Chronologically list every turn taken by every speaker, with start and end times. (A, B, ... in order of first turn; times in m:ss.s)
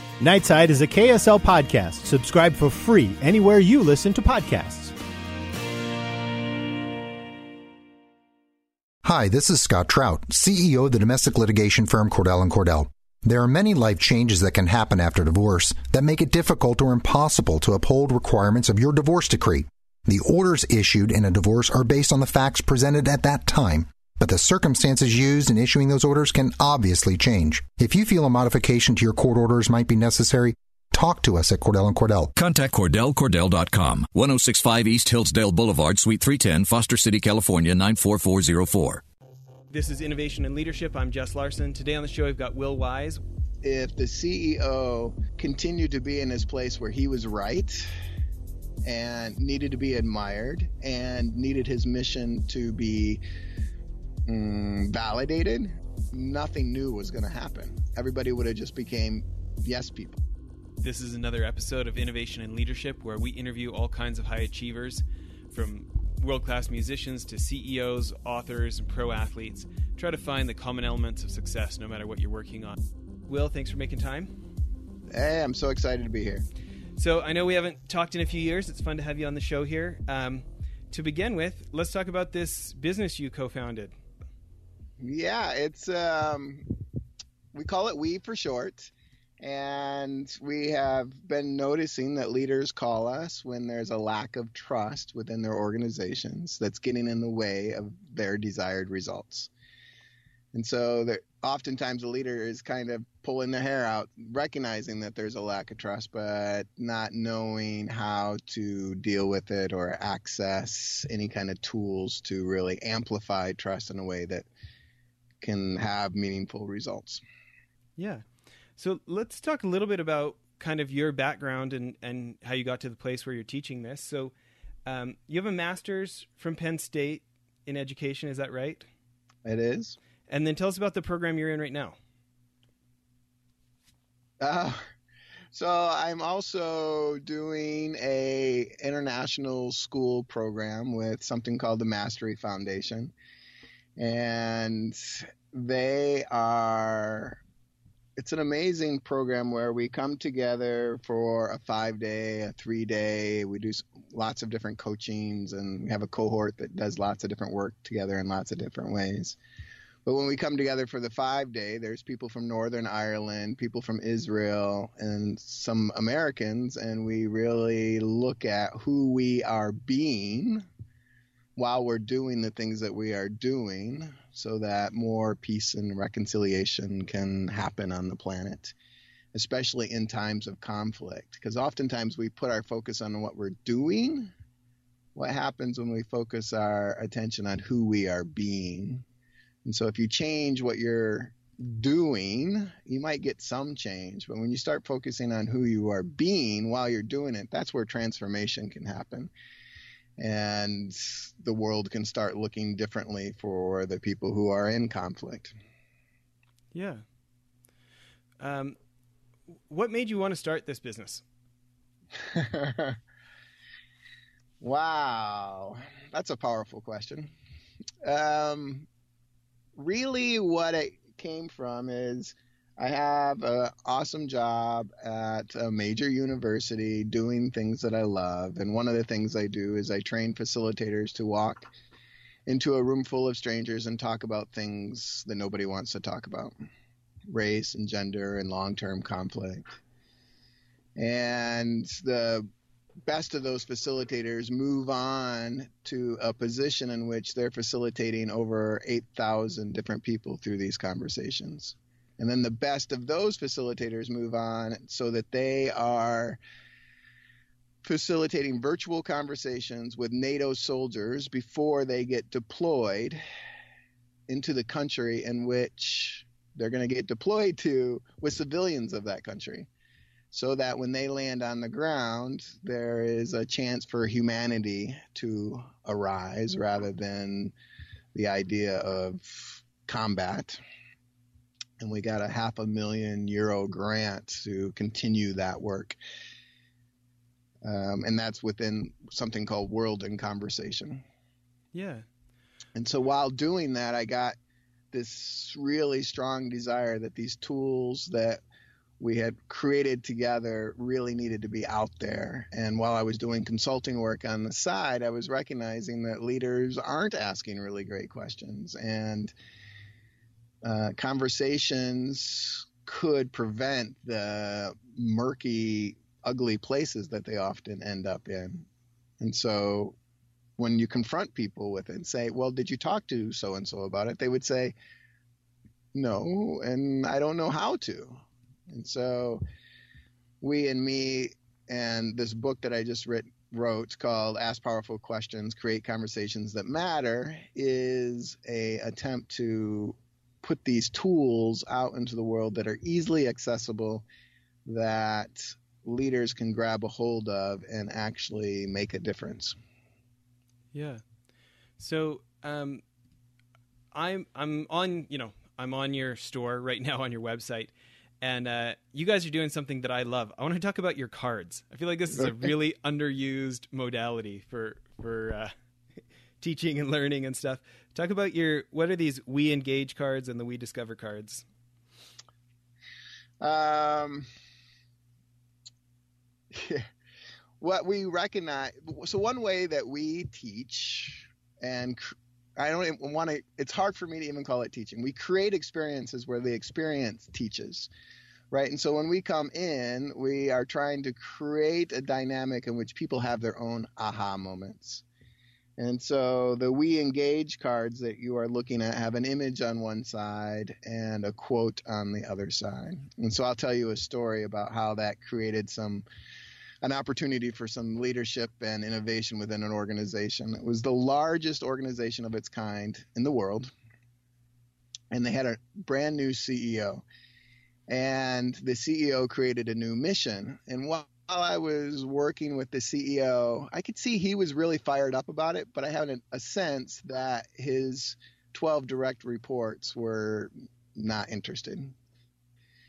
0:00.2-0:05.0 A
0:09.0-0:32.3 B
0:32.4-0:39.0 C
0:39.7-0:43.2 D
0:43.6-0:47.9 E
0:48.8-0:53.2 E
0:54.3-1:00.2 E
1:00.8-1:14.3 D
1:15.1-1:16.4 E
1:17.0-1:23.9 D
1:25.0-1:26.7 E
1:27.5-1:39.5 E
1:40.5-1:54.5 E
1:55.4-1:57.2 E
1:58.0-1:58.2 D
1:58.8-2:04.3 D
2:04.8-2:08.8 D
2:09.4-2:10.0 E
2:10.3-2:11.9 D
2:14.4-2:14.8 E
2:15.5-2:23.1 E
2:24.0-2:27.4 E
2:28.2-2:39.4 E
2:40.1-2:50.7 E
2:51.6-2:58.7 E
2:59.3-3:04.3 E
3:05.1-3:09.0 E
3:09.6-3:19.3 E
3:20.2-3:25.5 E
3:26.7-3:27.0 D
3:28.4-3:28.8 D
3:29.7-3:31.2 D
3:32.2-3:33.0 E
3:34.6-3:37.3 E
3:38.0-3:38.9 E
3:39.8-3:51.7 E
3:52.5-3:56.5 E
3:57.3-3:59.6 E
4:01.0-4:02.5 E
4:03.1-4:16.4 E
4:17.8-4:23.2 E
4:24.3-4:29.7 E
4:30.3-4:37.5 E
4:38.1-4:40.6 E
4:41.8-4:46.0 E
4:47.6-4:51.0 E
4:51.7-4:52.0 D
4:52.8-4:54.4 E
4:54.9-4:58.4 E
4:59.0-5:09.3 E
5:10.6-5:18.6 E
5:19.2-5:19.9 E
5:20.6-5:24.7 E
5:25.9-5:29.4 E
5:30.4-5:44.1 E
5:44.6-5:49.6 E
5:50.7-5:51.0 D
5:51.8-5:52.8 D
5:53.9-6:05.5 D
6:06.4-6:11.4 D
6:13.4-6:14.3 E
6:16.5-6:16.9 E
6:17.6-6:27.9 E
6:28.5-6:35.0 E
6:35.8-6:46.0 E
6:46.8-6:53.7 E
6:55.1-6:57.0 E
6:57.9-7:11.9 E